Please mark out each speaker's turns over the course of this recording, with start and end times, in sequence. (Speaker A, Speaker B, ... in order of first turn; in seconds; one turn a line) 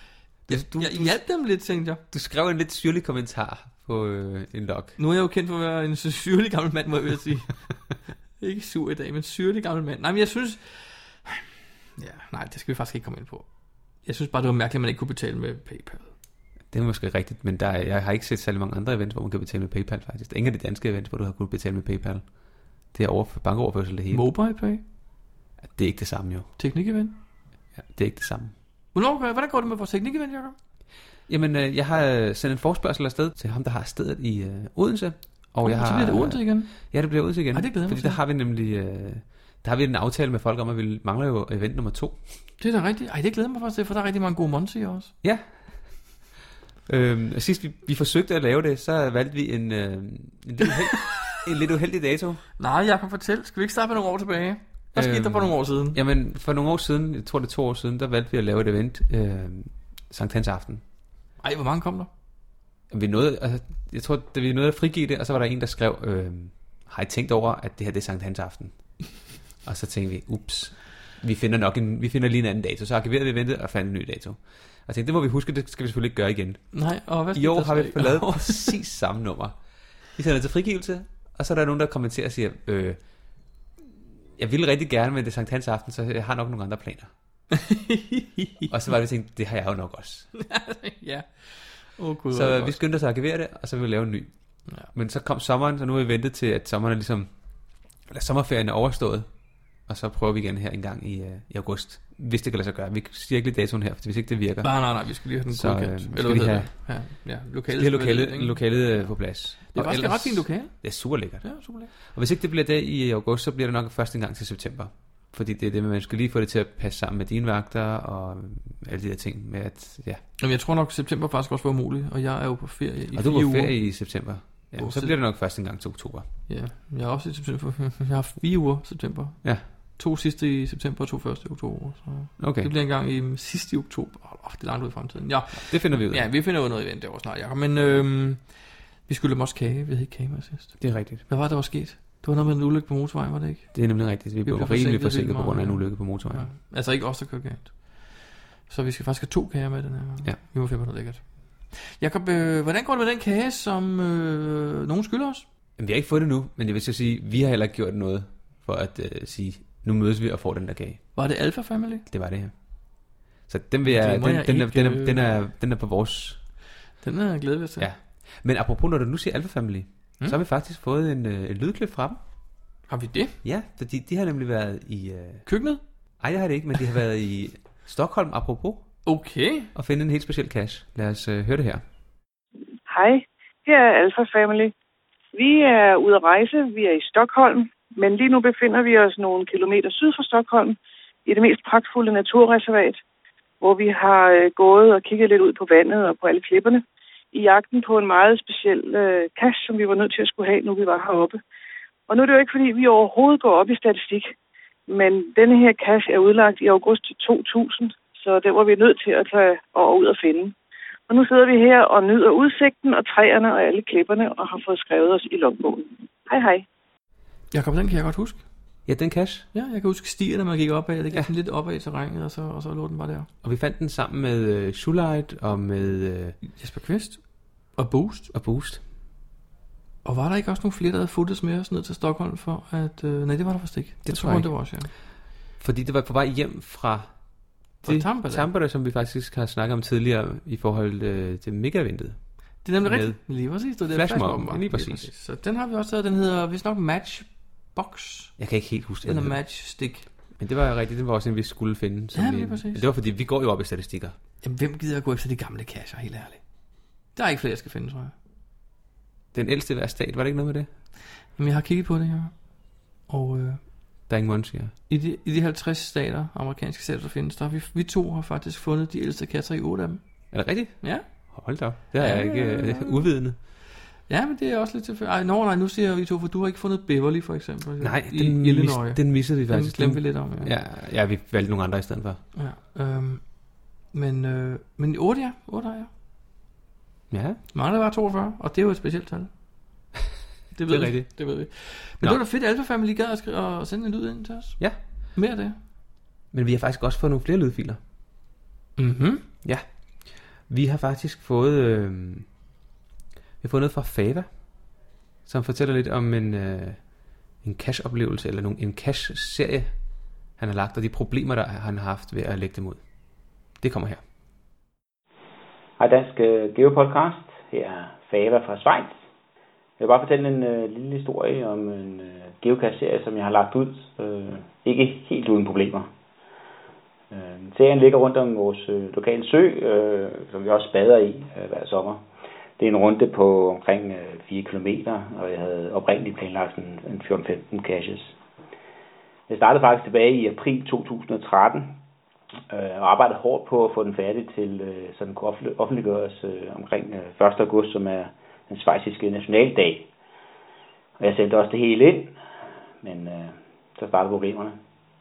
Speaker A: 0.5-1.2
Speaker B: 0.5-2.0
Speaker A: 2.1-5.0
Speaker B: 5.0-7.6
Speaker B: 8.4-11.4
Speaker B: 12.0-13.5
Speaker B: 14.0-16.1
Speaker A: 16.7-22.2
Speaker A: 22.9-24.3
Speaker B: 24.1-24.8
Speaker A: 25.6-26.5
Speaker B: 26.6-27.2
Speaker A: 27.8-28.5
Speaker B: 28.9-30.6
Speaker A: 31.3-42.2
Speaker B: 35.6-36.9
Speaker B: 37.5-38.2
Speaker B: 42.6-45.1
Speaker A: 45.2-45.5
Speaker A: 46.9-52.4
Speaker B: 50.9-51.4
Speaker B: 52.6-56.0
Speaker A: 54.9-60.8
Speaker B: 61.4-62.1
Speaker A: 62.9-69.0
Speaker A: 69.6-76.8
Speaker B: 76.7-78.7
Speaker A: 77.3-79.6
Speaker A: 80.2-83.0
Speaker A: 84.4-87.1
Speaker B: 87.6-88.7
Speaker A: 88.7-90.3
Speaker B: 90.4-92.8
Speaker A: 92.3-94.3
Speaker A: 94.9-97.3
Speaker A: 98.1-99.3
Speaker A: 99.9-106.7
Speaker B: 104.6-109.1
Speaker A: 107.7-120.2
Speaker B: 109.7-111.9
Speaker B: 120.4-123.7
Speaker A: 123.2-126.3
Speaker B: 124.8-125.1
Speaker B: 126.5-143.9
Speaker A: 132.4-132.7
Speaker A: 135.6-136.3
Speaker A: 140.8-141.2
Speaker A: 143.7-146.5
Speaker B: 144.4-155.5
Speaker A: 155.8-161.1
Speaker B: 161.2-162.0
Speaker A: 162.1-162.5
Speaker A: 163.5-166.4
Speaker B: 163.8-165.4
Speaker B: 167.0-167.9
Speaker A: 167.8-172.2
Speaker B: 172.9-173.3
Speaker A: 173.4-175.5
Speaker B: 175.5-175.8
Speaker A: 176.2-178.9
Speaker B: 179.1-179.7
Speaker A: 179.7-181.8
Speaker C: 182.9-184.7
Speaker C: 185.3-193.0
Speaker C: 193.6-201.4
Speaker C: 202.1-204.3
Speaker C: 204.9-210.5
Speaker C: 211.1-216.7
Speaker B: 217.5-218.4
Speaker A: 218.9-219.5
Speaker B: 219.5-223.3
Speaker A: 223.4-226.4
Speaker B: 226.4-228.3
Speaker A: 228.3-228.8
Speaker B: 230.0-234.9
Speaker A: 234.1-234.8
Speaker A: 235.6-237.2
Speaker A: 237.8-245.1
Speaker B: 237.8-238.5
Speaker B: 242.6-248.4
Speaker A: 248.4-249.4
Speaker B: 249.0-250.1
Speaker A: 250.4-254.2
Speaker B: 252.2-252.8
Speaker B: 254.4-256.4
Speaker B: 257.1-258.1
Speaker A: 259.3-260.7
Speaker B: 261.3-262.5
Speaker B: 263.1-263.7
Speaker A: 264.1-264.7
Speaker B: 264.9-273.1
Speaker A: 270.3-273.4
Speaker B: 274.1-280.5
Speaker A: 277.8-282.2
Speaker B: 282.4-285.9
Speaker A: 287.1-287.4
Speaker B: 287.5-289.3
Speaker B: 290.5-295.6
Speaker A: 290.7-292.2
Speaker A: 296.3-297.8
Speaker B: 298.8-299.3
Speaker A: 300.5-302.3
Speaker A: 303.4-304.3
Speaker A: 305.3-306.8
Speaker A: 307.4-309.7
Speaker A: 310.4-312.8
Speaker A: 313.6-314.0
Speaker D: 315.8-319.0
Speaker D: 319.8-325.9
Speaker D: 327.1-332.0
Speaker D: 332.6-338.1
Speaker D: 339.3-341.8
Speaker D: 342.5-349.9
Speaker D: 351.0-352.2
Speaker D: 352.8-354.6